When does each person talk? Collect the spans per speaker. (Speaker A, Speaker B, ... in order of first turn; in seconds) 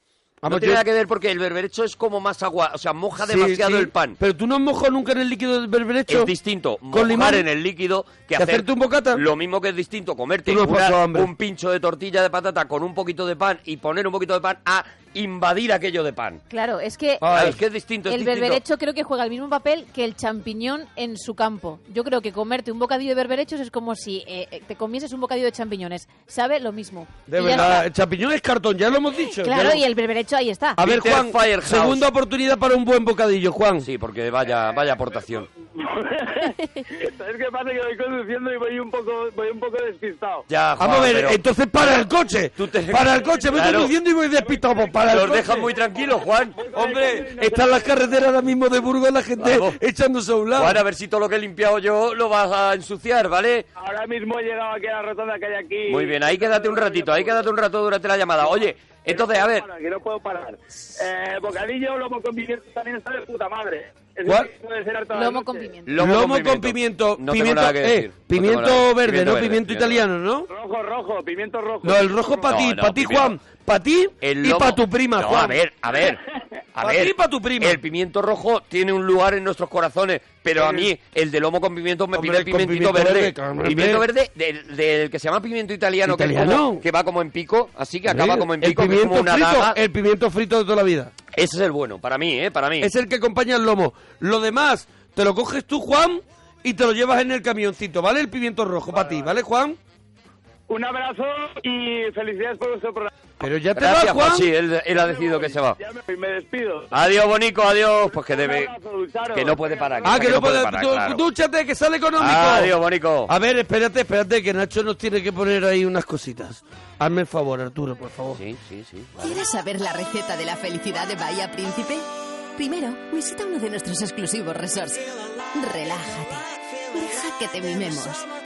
Speaker A: 0.4-0.8, 3.2-6.3, 6.9-7.5, 8.4-9.2, 10.4-11.3, 17.2-17.6, 27.3-29.8, 30.8-33.9, 40.8-45.6, 46.7-50.8, 66.0-70.5, 71.8-75.6, 76.8-77.8, 82.1-84.0, 86.0-86.8, 88.1-91.1, 92.8-99.8, 103.4-104.5, 110.0-112.7, 113.3-118.4
Speaker B: 0.5-4.2, 6.1-16.4, 17.3-18.6, 30.8-32.0, 33.8-35.5, 40.5-42.0, 42.5-43.9, 45.1-46.5, 49.4-49.8, 50.5-53.6, 55.9-59.6, 65.9-70.0, 72.5-73.3, 74.2-76.2, 76.7-89.8, 91.3-92.9, 103.8-105.8, 106.9-108.7, 109.3-111.2, 112.2-113.3, 118.3-119.4
Speaker C: 16.5-17.3, 18.1-27.8, 29.4-30.8, 65.1-65.9
Speaker D: 35.7-40.4, 44.6-44.8, 46.0-48.0, 53.8-57.4, 59.1-65.7, 70.5-72.5, 100.7-103.1, 105.0-106.9, 108.1-110.3
Speaker E: 119.2-128.2